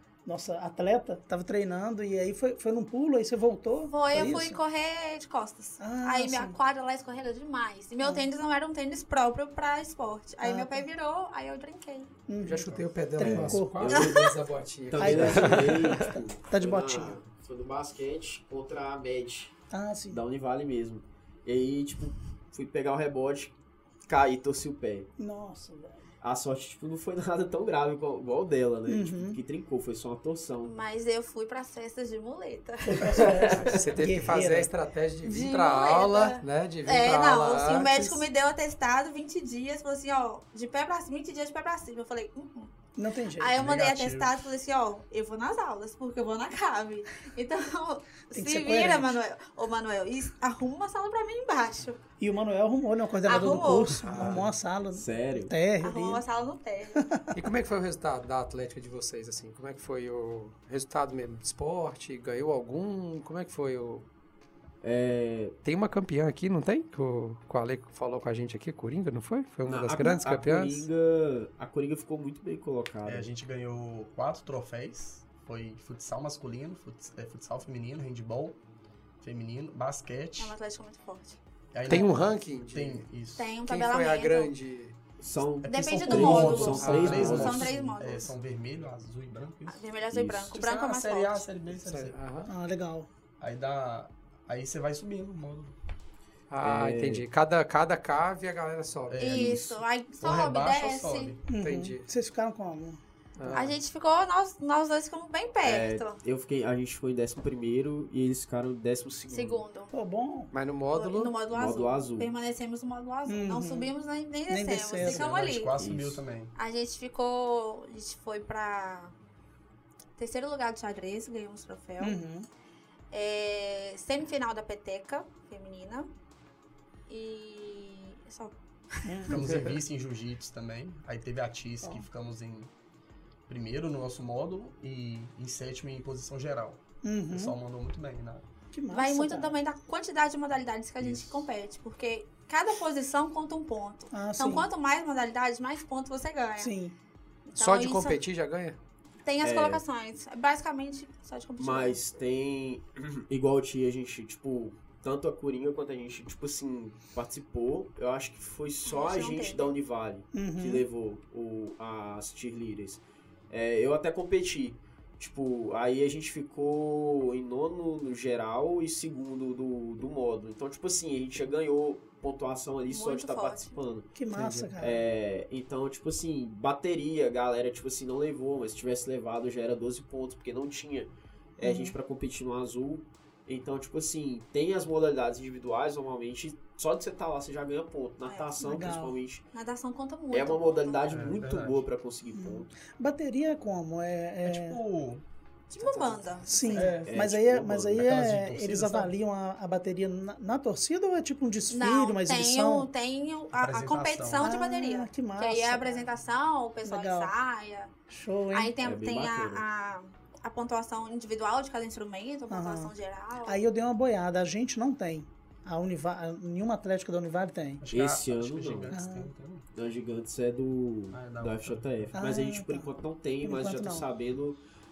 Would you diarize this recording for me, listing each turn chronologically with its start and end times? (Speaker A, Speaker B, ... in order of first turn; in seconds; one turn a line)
Speaker A: 0.3-4.6
Speaker B: 3.9-12.1
Speaker A: 5.8-6.6
Speaker A: 8.0-8.3
Speaker A: 10.4-10.9
Speaker A: 12.3-13.9
Speaker C: 12.4-16.1
Speaker D: 12.6-12.9
Speaker E: 13.2-19.5
Speaker A: 14.9-17.2
Speaker A: 19.7-20.2
Speaker E: 20.1-23.5
Speaker E: 24.1-25.1
Speaker A: 25.2-26.0
Speaker E: 26.2-30.8
Speaker A: 28.9-29.4
Speaker B: 30.6-33.3
Speaker A: 32.8-34.7
Speaker E: 33.0-33.8
Speaker C: 33.5-38.2
Speaker B: 35.2-42.8
Speaker A: 43.0-43.5
Speaker B: 43.4-52.0
Speaker D: 43.5-44.5
Speaker A: 48.3-49.2
Speaker A: 52.2-56.2
Speaker B: 53.2-54.0
Speaker C: 54.0-54.5
Speaker E: 54.2-55.5
Speaker B: 55.8-57.0
Speaker A: 57.0-57.4
Speaker C: 57.4-64.1
Speaker E: 64.8-65.5
Speaker C: 65.7-70.9
Speaker E: 69.7-73.3
Speaker D: 73.0-78.6
Speaker D: 79.2-80.6
Speaker B: 80.4-82.1
Speaker D: 81.7-83.5
Speaker C: 81.9-83.1
Speaker B: 83.4-84.5
Speaker C: 83.7-85.0
Speaker E: 85.2-87.7
Speaker D: 85.6-89.9
Speaker B: 85.7-88.3
Speaker C: 86.4-87.5
Speaker B: 89.7-91.4
Speaker E: 90.1-90.6
Speaker D: 90.5-92.2
Speaker C: 91.8-92.5
Speaker A: 92.5-93.1
Speaker D: 93.4-95.8
Speaker C: 96.5-99.2
Speaker E: 96.6-97.2
Speaker D: 99.1-101.4
Speaker B: 99.2-101.4
Speaker A: 101.5-103.0
Speaker C: 101.6-102.1
Speaker C: 103.4-103.8
Speaker B: 103.5-106.2
Speaker E: 105.6-109.6
Speaker B: 109.3-109.9
Speaker A: 109.9-110.5
Speaker C: 110.5-111.3
Speaker B: 110.9-115.8
Speaker E: 111.5-112.3
Speaker A: 113.3-113.9
Speaker A: 114.5-115.3
Speaker D: 115.0-116.5
Speaker E: 115.8-116.2
Speaker B: 116.5-119.1
Speaker B: 120.2-122.2
Speaker A: 122.0-122.5
Speaker B: 123.1-126.1
Speaker B: 127.1-129.3
Speaker A: 129.1-129.4
Speaker D: 129.3-132.7
Speaker C: 129.4-129.7
Speaker D: 133.5-138.5
Speaker A: 137.0-137.6
Speaker A: 138.7-139.6
Speaker B: 138.9-146.7
Speaker D: 141.0-141.4
Speaker A: 144.1-144.7
Speaker A: 146.6-146.9
Speaker B: 147.5-148.2
Speaker C: 147.6-148.8
Speaker B: 149.2-152.0
Speaker E: 149.4-149.8
Speaker E: 151.6-174.1
Speaker B: 158.8-159.8
Speaker A: 160.3-160.9
Speaker B: 172.9-173.8
Speaker A: 174.2-175.0
Speaker C: 174.3-174.7
Speaker E: 174.8-189.4
Speaker A: 181.6-182.0
Speaker B: 188.3-188.9
Speaker A: 188.6-189.2
Speaker B: 189.5-191.1
Speaker E: 190.3-192.8
Speaker D: 191.1-191.9
Speaker A: 192.3-194.8
Speaker D: 194.4-195.2
Speaker B: 195.7-197.0
Speaker E: 195.7-198.1
Speaker A: 196.5-202.9
Speaker D: 197.9-199.2
Speaker B: 201.7-207.9
Speaker D: 203.5-204.5
Speaker A: 204.4-206.1
Speaker A: 206.8-207.3
Speaker A: 208.1-208.7
Speaker B: 208.5-213.6
Speaker E: 208.8-209.7
Speaker A: 212.5-212.9
Speaker A: 213.4-217.8
Speaker D: 217.8-219.7
Speaker E: 217.9-218.9
Speaker A: 218.9-219.3
Speaker E: 219.7-224.6
Speaker D: 221.1-222.2
Speaker A: 222.1-222.9
Speaker A: 223.4-224.1